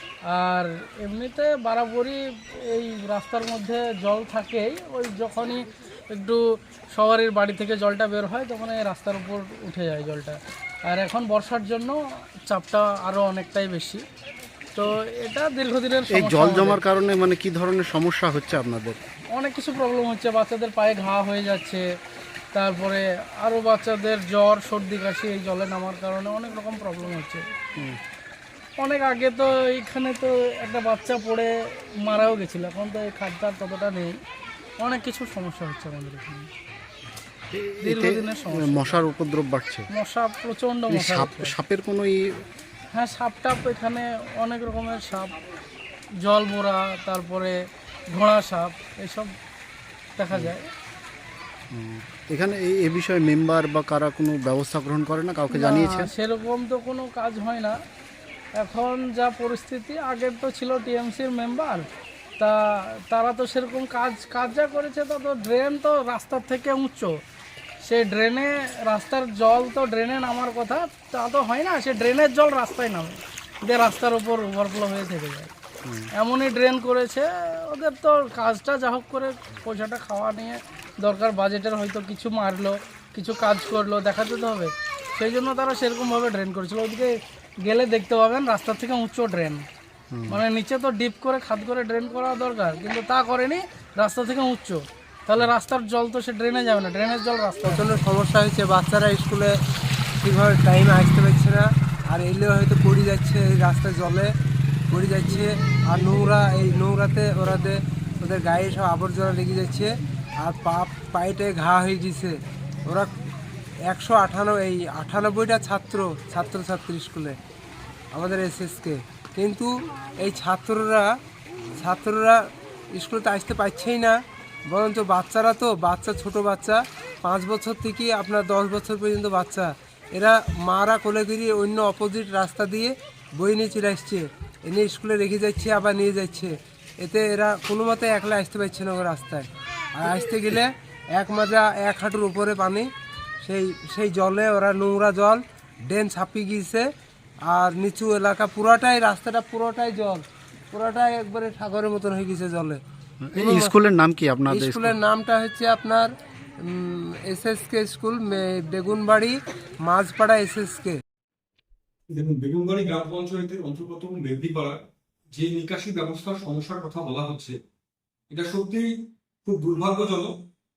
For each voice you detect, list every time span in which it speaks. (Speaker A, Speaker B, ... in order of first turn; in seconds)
Speaker A: 0.3-6.4, 6.9-14.0, 14.8-16.8, 19.3-21.8, 22.5-27.4, 28.8-34.2, 34.8-36.5, 37.8-39.0, 39.9-41.5, 42.9-45.4, 46.2-47.5, 48.1-49.3, 50.2-50.7, 55.5-57.8, 58.6-61.9, 63.1-67.2, 67.8-75.5, 76.2-89.7, 90.3-97.9
Speaker B: 16.1-19.0, 37.5-39.9, 40.9-42.2, 51.7-56.1, 90.1-90.4, 153.3-154.9
Speaker C: 97.7-99.6, 100.2-104.3, 104.9-113.1, 113.9-117.4, 118.1-121.1, 121.8-122.4, 122.9-124.2, 124.7-142.9, 143.4-146.9, 147.5-152.8, 153.4-153.7, 154.5-156.1, 156.6-161.0
Speaker D: 162.1-164.8, 165.3-167.6, 168.3-168.9, 169.4-170.4